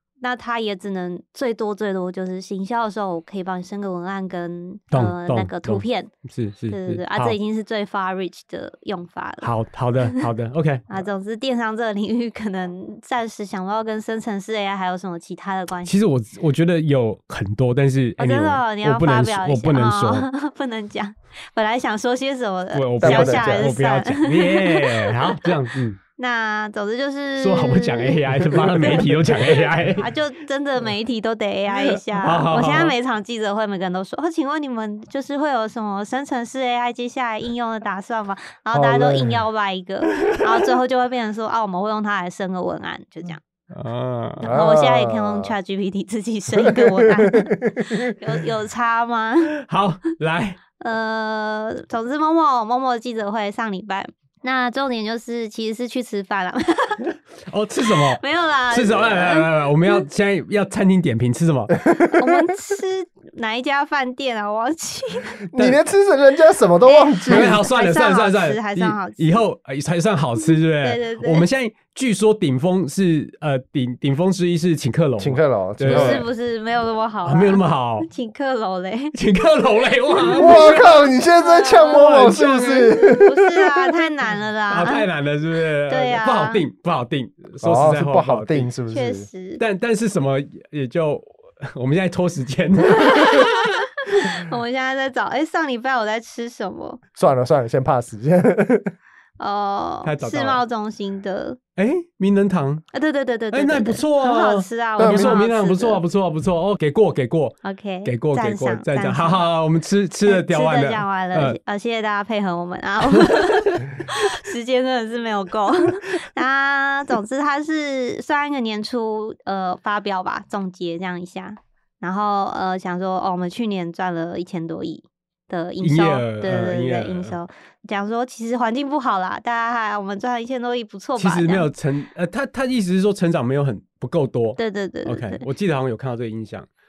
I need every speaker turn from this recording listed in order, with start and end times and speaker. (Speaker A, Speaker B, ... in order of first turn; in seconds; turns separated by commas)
Speaker A: 0.2-6.1, Speaker B: 4.9-7.4, Speaker A: 6.7-10.3, Speaker B: 9.4-11.1, Speaker A: 10.9-15.9, Speaker B: 15.8-20.3, Speaker A: 18.2-25.6, Speaker B: 22.7-26.0, Speaker C: 23.0-23.7, Speaker A: 26.2-43.4, Speaker B: 27.4-30.1, Speaker B: 31.7-33.0, Speaker C: 38.7-39.4, Speaker B: 40.2-40.5, Speaker B: 43.7-44.6, Speaker C: 44.4-45.5, Speaker A: 44.4-49.5, Speaker C: 46.6-48.1, Speaker B: 49.5-50.6, Speaker A: 50.8-57.1, Speaker B: 57.5-61.8, Speaker A: 57.8-60.0, Speaker C: 61.8-62.3, Speaker A: 62.1-65.4, Speaker C: 65.5-67.6, Speaker A: 66.9-69.4, Speaker B: 67.3-76.3, Speaker A: 70.8-71.5, Speaker C: 75.2-76.3, Speaker A: 75.9-79.2, Speaker B: 77.2-78.1, Speaker B: 79.1-81.0, Speaker A: 80.1-80.8, Speaker C: 80.3-83.7, Speaker A: 81.4-82.0, Speaker B: 81.8-83.0, Speaker A: 83.2-85.1, Speaker B: 84.7-88.7, Speaker A: 85.9-86.6, Speaker C: 87.6-89.3, Speaker A: 88.9-89.6, Speaker B: 89.6-93.7, Speaker A: 93.0-93.5, Speaker A: 94.0-97.0, Speaker C: 97.2-98.9, Speaker A: 99.4-101.6, Speaker B: 100.0-100.6, Speaker B: 101.8-102.9, Speaker A: 102.9-106.0, Speaker B: 103.5-111.6, Speaker C: 105.0-105.4, Speaker A: 107.7-109.5, Speaker A: 110.2-131.7, Speaker B: 113.1-113.9, Speaker B: 125.8-127.4, Speaker B: 131.2-136.7, Speaker A: 134.6-135.4